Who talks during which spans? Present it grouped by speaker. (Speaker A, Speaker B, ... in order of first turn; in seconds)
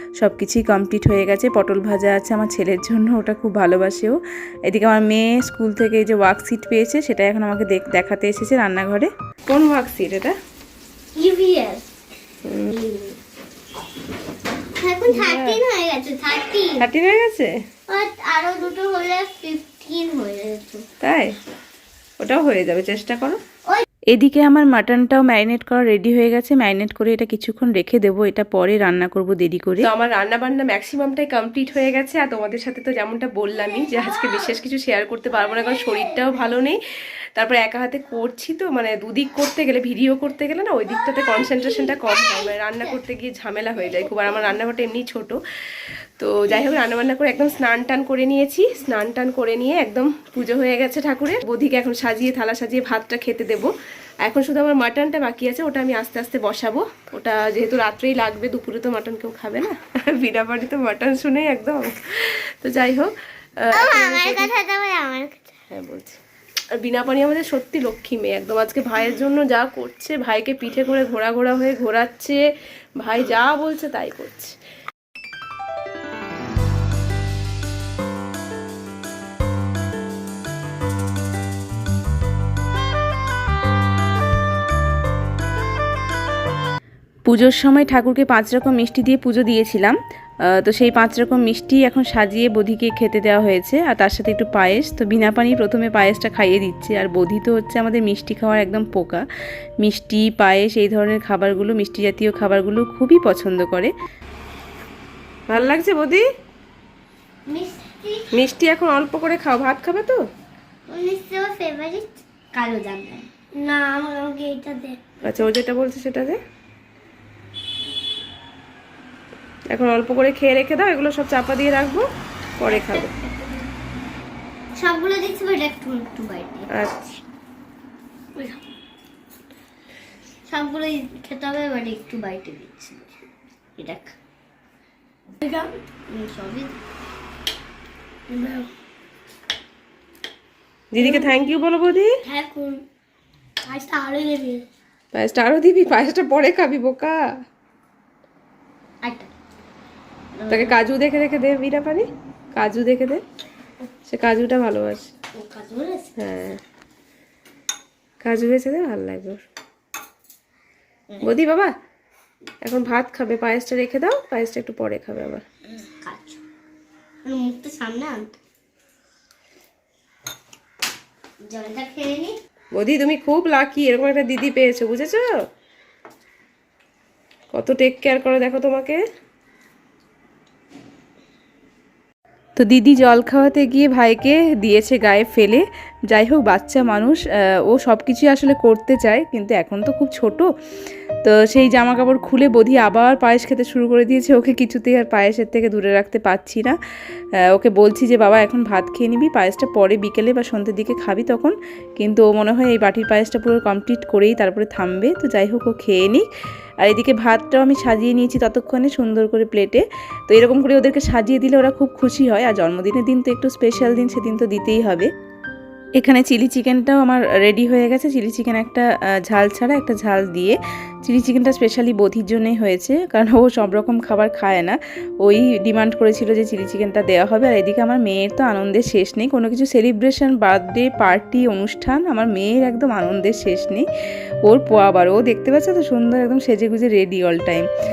Speaker A: 0.2-9.1, 24.1-29.9, 87.2-99.2, 99.8-103.9, 182.6-190.5, 191.2-196.8, 197.4-206.3, 206.8-215.1, 216.0-233.9, 234.4-237.7
Speaker B: 9.5-10.3, 12.4-12.7, 15.1-15.6, 16.8-17.5, 21.0-21.4, 22.2-23.4, 29.8-36.8, 37.4-64.5, 65.7-66.2, 66.8-72.4, 73.0-74.5, 105.5-106.2, 108.3-110.2, 115.2-116.4, 119.7-122.1, 122.6-123.1, 126.7-127.2, 140.9-142.1, 145.1-147.2, 150.5-153.2, 154.1-155.1, 156.2-156.6, 158.2-159.4, 161.2-161.7, 162.6-165.4, 172.7-175.3, 177.5-179.0
Speaker C: 11.1-11.9, 12.7-13.1, 14.8-16.8, 17.9-20.8, 33.5-34.5, 35.3-36.4, 41.0-43.0, 63.7-65.5, 107.5-108.3, 110.9-115.0, 122.7-123.6, 124.7-126.7, 130.5-133.2, 133.8-134.2, 135.4-136.8, 138.3-138.7, 141.0-141.3, 142.2-142.8, 143.7-144.6, 149.0-149.3, 150.3-150.8, 155.3-156.1, 165.8-166.4, 167.2-168.3, 171.4-172.3